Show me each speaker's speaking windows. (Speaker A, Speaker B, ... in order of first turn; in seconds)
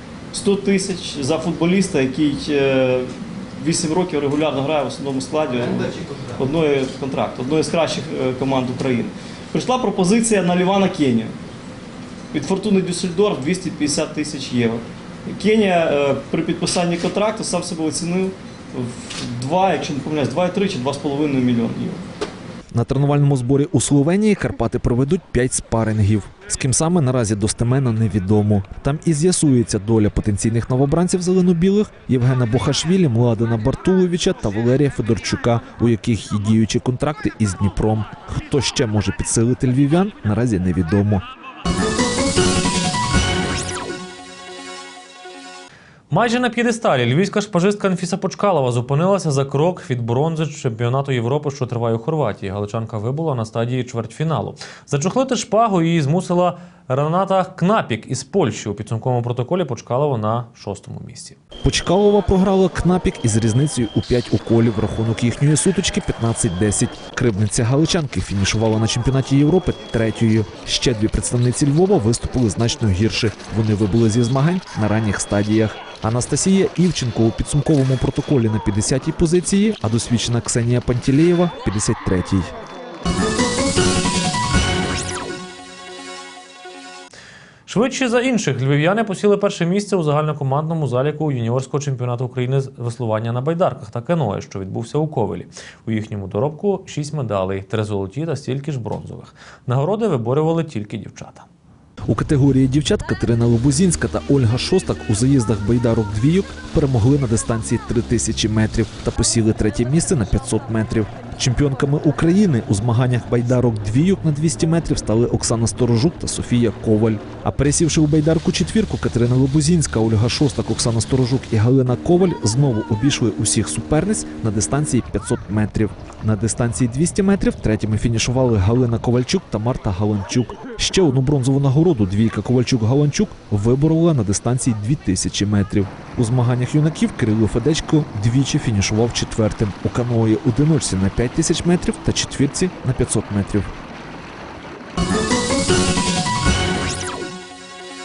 Speaker A: 0.3-11.3, 12.3-22.0
Speaker B: 22.7-41.2, 61.6-82.5, 102.1-143.7
Speaker C: 46.1-61.4, 87.7-101.5